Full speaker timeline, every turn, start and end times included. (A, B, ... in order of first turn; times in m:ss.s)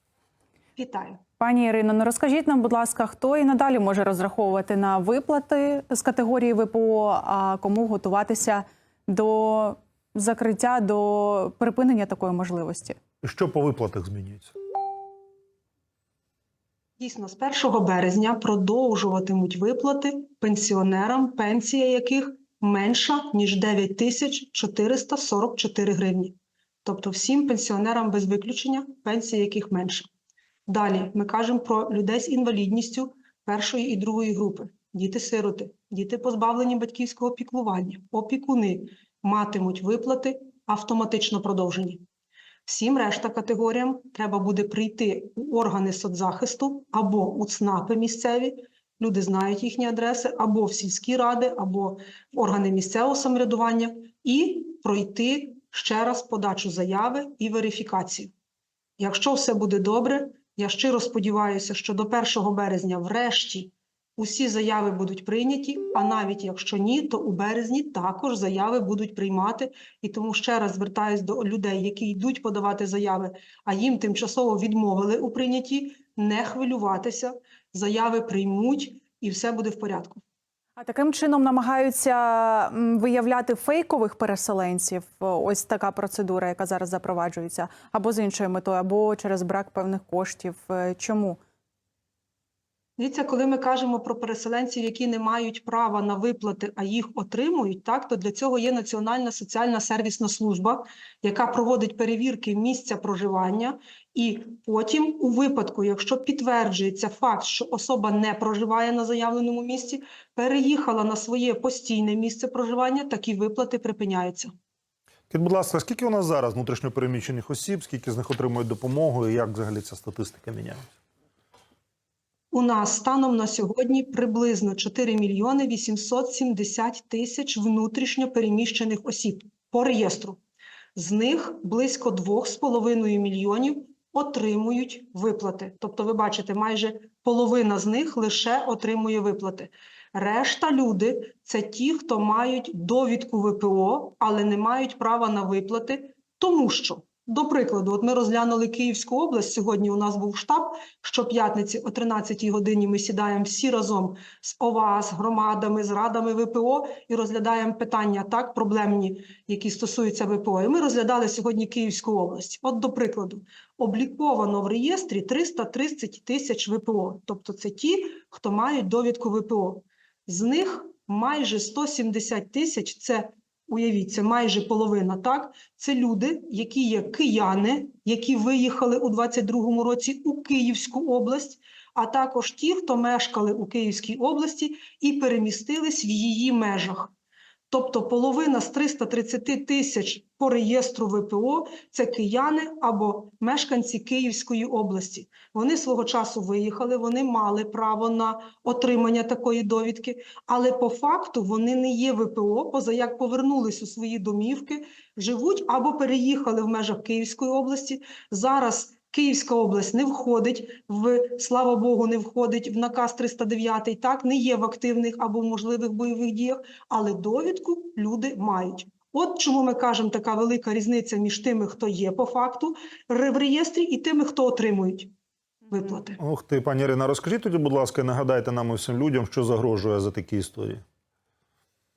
0:00.8-0:01.2 A
0:01.4-0:13.0 B
0:13.2-0:14.5 C
0:17.0-0:30.1 A
0:30.7-0:42.0 A
0:42.6-0:58.3 A
0:59.0-1:20.2 A
1:20.8-1:31.4 B
1:33.0-1:54.5 A
1:55.3-2:00.8 C
2:02.5-2:10.4 A
2:11.0-3:07.1 A
3:07.7-3:45.1 A
3:45.7-3:46.2 A
3:46.2-3:50.8 C